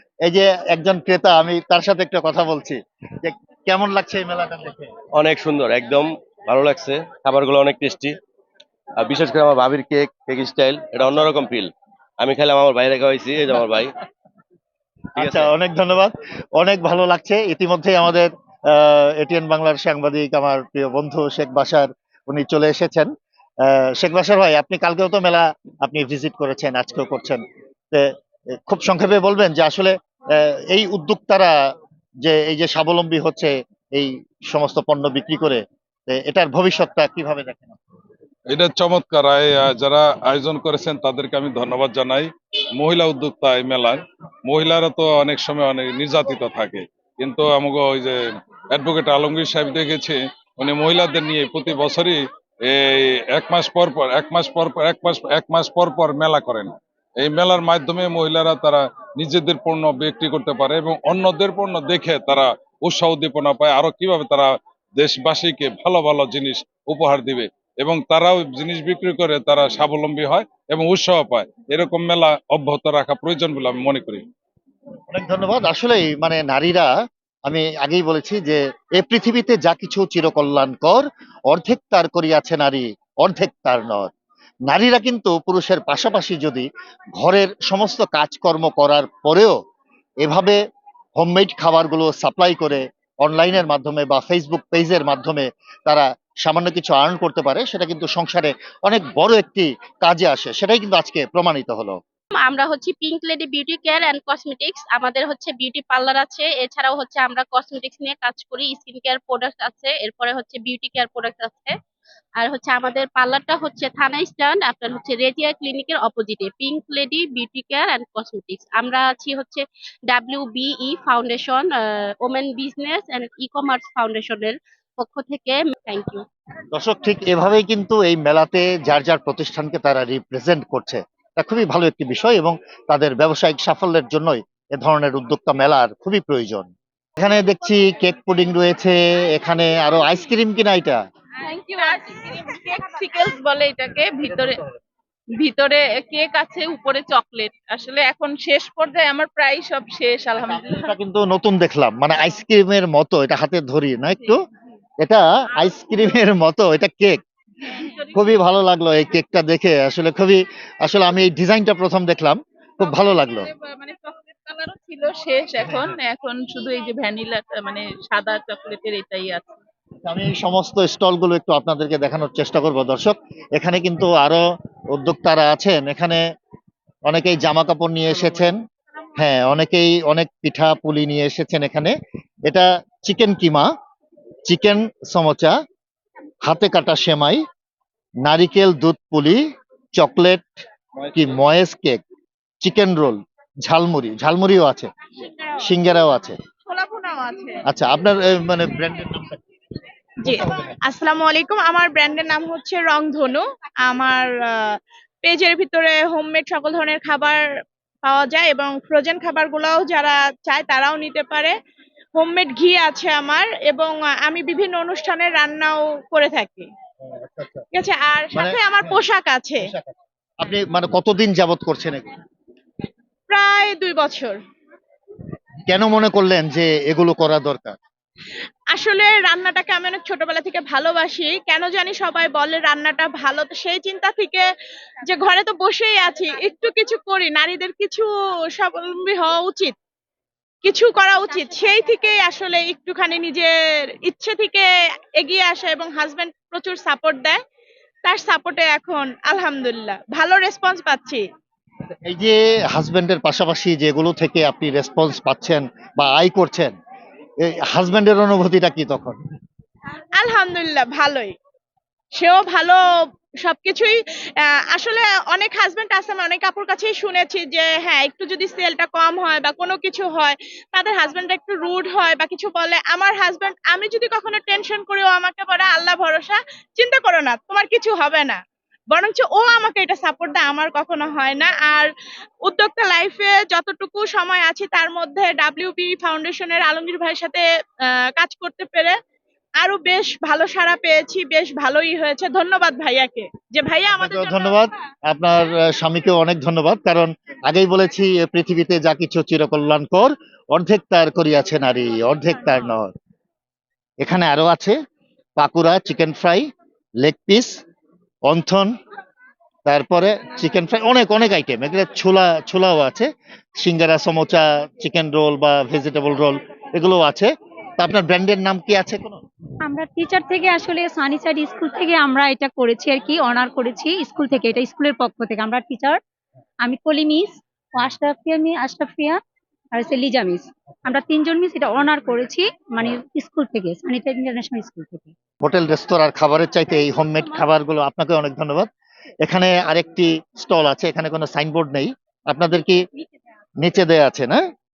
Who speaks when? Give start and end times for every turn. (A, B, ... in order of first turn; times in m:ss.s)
0:00.3-0:04.9 A
0:05.1-0:08.2 B
0:09.0-0:13.9 B
0:15.2-0:15.5 B
0:15.2-0:23.1 A
0:23.6-0:27.4 A
0:28.7-0:31.5 A
0:32.2-0:37.8 A
0:38.5-0:48.2 C
0:48.7-1:14.2 C
1:15.1-1:16.9 A
1:17.5-1:24.1 A
1:24.7-1:26.7 A
1:27.2-1:29.5 A
1:30.2-1:30.6 A
1:31.2-1:42.0 A
1:42.3-1:51.7 D
1:52.4-2:06.2 D
2:06.7-2:21.0 A
2:21.8-2:24.5 E
2:25.4-2:30.9 E
2:30.4-2:34.4 A
2:35.0-2:37.2 A
2:38.1-2:43.5 A
2:43.9-2:49.5 E
2:45.6-2:45.9 A
2:50.1-2:56.2 A
2:57.1-2:58.6 A
2:59.2-3:01.9 A
3:02.5-3:03.7 A
3:04.5-3:05.5 A
3:06.4-3:07.4 A
3:08.2-3:09.4 A
3:10.0-3:10.6 A
3:11.1-3:12.0 A
3:12.6-3:14.9 A
3:15.6-3:16.4 A
3:16.7-3:17.6 F
3:17.7-3:19.4 A
3:20.2-3:27.5 F
3:20.2-3:20.7 A
3:28.0-3:31.6 F
3:32.2-3:36.7 F
3:37.0-3:37.6 A
3:37.7-3:39.6 F
3:38.3-3:39.1 A
3:39.6-3:42.1 A
3:43.3-3:44.4 F
3:45.7-3:47.8 A
3:48.7-3:54.4 F
3:55.1-3:59.8 F
4:00.6-4:03.5 F
4:04.0-4:07.4 F
4:08.0-4:11.2 F
4:12.1-4:16.8 A
4:17.4-4:19.2 A
4:20.2-4:21.4 F
4:22.1-4:22.8 F
4:23.4-4:41.9 F
4:42.4-4:49.0 F
4:49.6-4:54.6 F
4:54.0-5:02.9 A
5:04.0-5:04.8 A
5:05.4-5:06.5 A
5:07.0-5:07.5 A
5:08.3-5:08.7 A
5:09.7-5:19.2 A
5:19.6-5:26.0 G
5:26.6-5:29.2 G
5:29.7-5:35.1 G
5:35.4-5:38.7 A
5:39.2-5:42.8 A
5:43.6-5:44.4 A